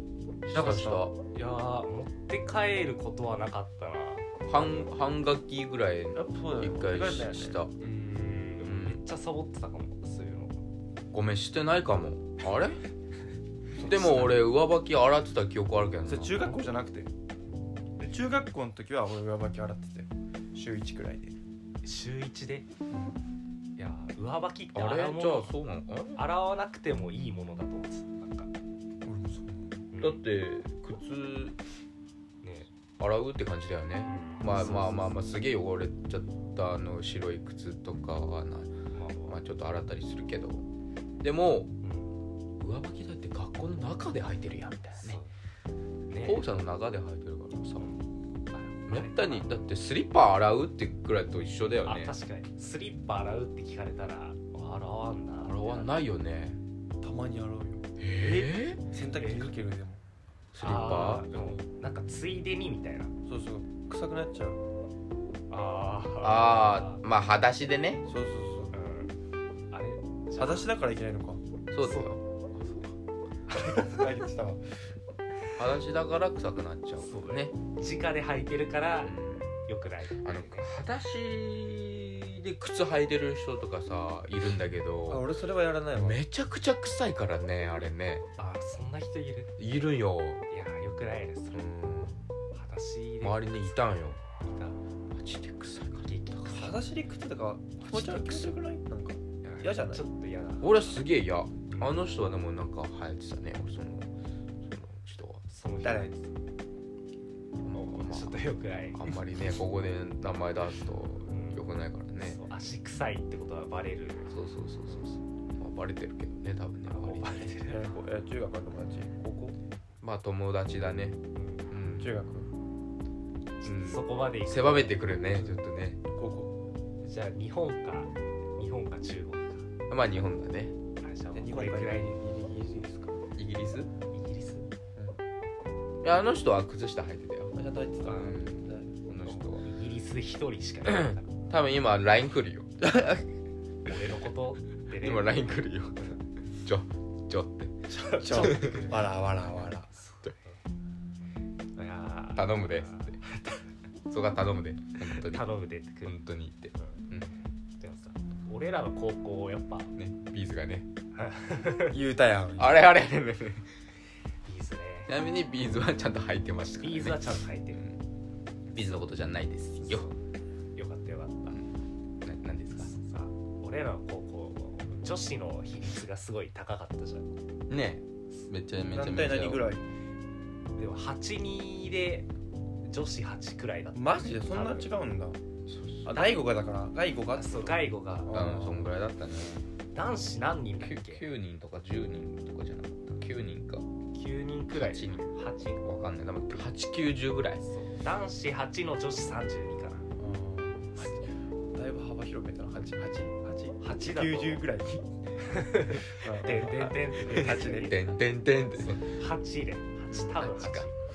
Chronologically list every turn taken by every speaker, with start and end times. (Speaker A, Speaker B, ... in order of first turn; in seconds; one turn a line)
Speaker A: 0.5-1.1
Speaker B: 0.5-4.8
Speaker C: 0.5-1.0
Speaker A: 4.5-7.7
Speaker C: 6.1-7.6
Speaker B: 7.8-10.6
Speaker A: 8.6-9.0
Speaker A: 11.1-12.8
Speaker C: 13.8-14.3
Speaker A: 13.8-16.4
Speaker C: 16.1-17.1
Speaker C: 18.0-21.4
Speaker B: 21.8-22.7
Speaker C: 22.9-23.1
Speaker B: 23.8-25.6
Speaker A: 24.7-26.2
Speaker B: 26.1-28.5
Speaker C: 29.0-29.9
Speaker B: 29.9-30.2
Speaker A: 30.0-31.6
Speaker B: 32.4-32.7
Speaker A: 33.0-38.7
Speaker B: 34.0-35.0
Speaker C: 34.5-35.1
Speaker B: 38.9-39.4
Speaker A: 39.3-40.6
Speaker A: 41.2-41.7
Speaker B: 41.8-42.1
Speaker A: 42.6-45.2
Speaker B: 45.0-45.3
Speaker B: 46.1-46.4
Speaker A: 46.2-47.9
Speaker B: 47.8-49.5
Speaker A: 48.9-52.1
Speaker B: 51.8-55.9
Speaker A: 55.4-56.6
Speaker C: 57.0-60.0
Speaker A: 58.0-58.8
Speaker B: 59.1-59.5
Speaker A: 60.5-61.6
Speaker B: 60.6-63.1
Speaker C: 63.3-64.6
Speaker B: 65.5-67.0
Speaker A: 66.2-68.0
Speaker C: 68.1-68.8
Speaker B: 68.7-69.1
Speaker B: 69.7-70.7
Speaker C: 70.4-71.4
Speaker A: 71.7-72.2
Speaker B: 71.8-72.2
Speaker C: 72.6-72.9
Speaker C: 73.5-74.6
Speaker B: 73.5-74.0
Speaker A: 75.6-77.5
Speaker B: 77.0-80.7
Speaker A: 79.0-79.5
Speaker A: 80.2-85.2
Speaker C: 85.1-86.2
Speaker A: 85.9-88.2
Speaker B: 88.4-89.5
Speaker A: 89.6-90.4
Speaker B: 90.5-91.7
Speaker A: 91.5-92.2
Speaker B: 92.5-94.8
Speaker A: 93.2-94.2
Speaker A: 95.1-96.1
Speaker B: 96.0-96.8
Speaker C: 96.5-100.0
Speaker A: 97.9-98.5
Speaker B: 99.4-100.8
Speaker A: 100.6-104.1
Speaker B: 101.7-102.0
Speaker A: 104.6-105.4
Speaker B: 105.5-106.1
Speaker C: 105.8-106.2
Speaker A: 107.6-108.3
Speaker B: 107.7-109.2
Speaker A: 108.9-112.4
Speaker B: 111.3-111.6
Speaker B: 112.2-114.3
Speaker A: 114.3-117.5
Speaker B: 116.9-117.9
Speaker C: 117.7-119.6
Speaker A: 120.0-122.1
Speaker B: 121.3-121.7
Speaker C: 122.0-122.5
Speaker B: 123.6-125.0
Speaker A: 123.6-126.0
Speaker C: 125.3-126.5
Speaker B: 127.0-129.7
Speaker A: 129.9-130.8
Speaker B: 131.0-132.1
Speaker C: 131.3-133.2
Speaker A: 133.3-133.9
Speaker B: 134.1-134.7
Speaker A: 136.0-137.5
Speaker C: 137.5-139.0
Speaker B: 138.0-138.4
Speaker A: 138.1-139.6
Speaker B: 139.2-141.4
Speaker A: 140.8-142.7
Speaker C: 142.8-143.2
Speaker B: 143.8-146.2
Speaker A: 145.0-146.0
Speaker A: 146.6-148.8
Speaker B: 147.9-149.1
Speaker C: 148.2-149.9
Speaker B: 149.9-150.6
Speaker B: 151.8-153.2
Speaker A: 152.3-153.2
Speaker A: 154.1-155.4
Speaker B: 155.1-156.2
Speaker A: 156.0-157.3
Speaker B: 156.7-157.0
Speaker B: 157.8-159.9
Speaker A: 159.9-160.9
Speaker B: 161.1-162.0
Speaker C: 161.8-162.8
Speaker A: 162.6-163.7
Speaker B: 164.4-165.1
Speaker A: 165.1-168.0
Speaker B: 166.8-167.8
Speaker A: 168.7-170.1
Speaker B: 169.9-170.1
Speaker B: 170.7-171.6
Speaker A: 172.2-172.9
Speaker B: 172.8-177.4
Speaker A: 177.7-179.7
Speaker C: 178.9-179.8
Speaker B: 180.8-182.3
Speaker B: 182.8-184.9
Speaker C: 183.9-185.4
Speaker A: 185.7-186.2
Speaker C: 186.0-188.9
Speaker B: 186.1-186.4
Speaker B: 187.3-188.3
Speaker A: 188.3-189.6
Speaker B: 189.9-191.2
Speaker A: 190.8-193.8
Speaker B: 194.1-195.8
Speaker A: 194.7-195.3
Speaker A: 195.8-197.6
Speaker B: 197.6-200.0
Speaker C: 200.2-208.1
Speaker B: 203.8-204.6
Speaker B: 205.4-208.1
Speaker A: 207.3-209.1
Speaker B: 209.0-210.9
Speaker C: 210.1-210.4
Speaker A: 210.4-210.9